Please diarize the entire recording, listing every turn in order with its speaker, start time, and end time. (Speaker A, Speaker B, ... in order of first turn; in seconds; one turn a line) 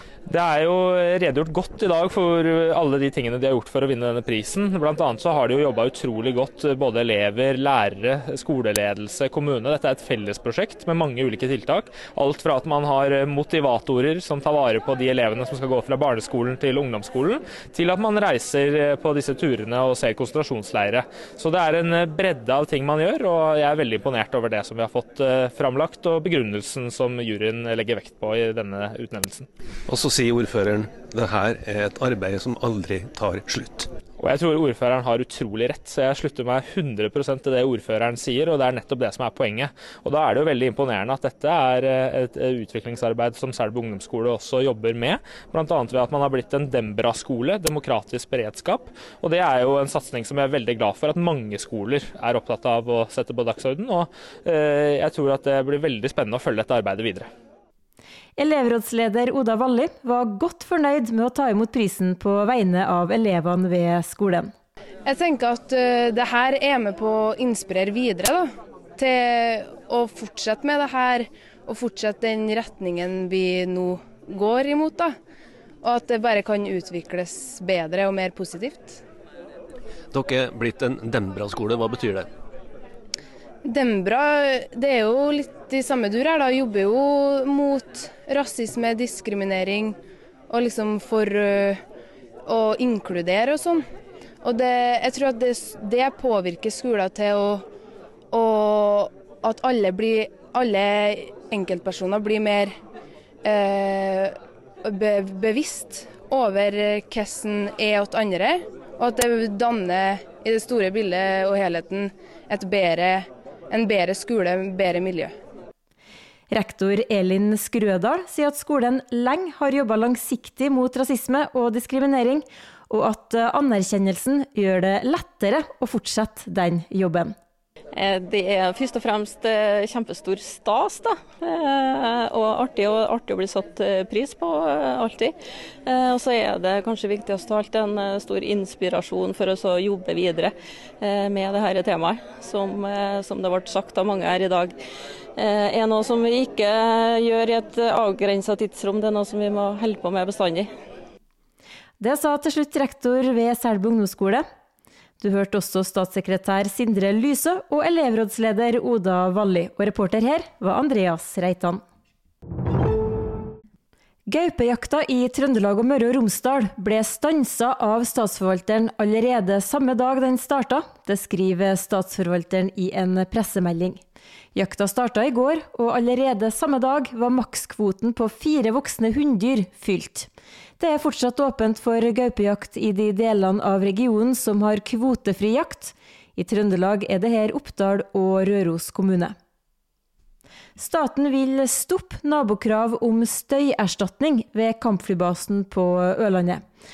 Speaker A: 0.3-29.5
Speaker B: 29.9-33.9
Speaker A: 34.2-57.3
Speaker C: 58.4-64.5
Speaker D: 65.0-75.2
Speaker D: 75.8-79.0
Speaker B: 80.1-82.3
Speaker D: 83.6-90.0
Speaker D: 90.5-91.8
Speaker D: 92.5-93.8
Speaker D: 94.4-97.7
Speaker D: 98.3-102.8
Speaker D: 103.4-115.3
Speaker C: 116.5-127.3
Speaker E: 127.9-135.3
Speaker E: 135.9-144.8
Speaker E: 145.4-150.7
Speaker C: 152.0-154.4
Speaker C: 155.2-161.8
Speaker C: 164.3-174.0
Speaker C: 174.5-189.3
Speaker C: 190.8-196.6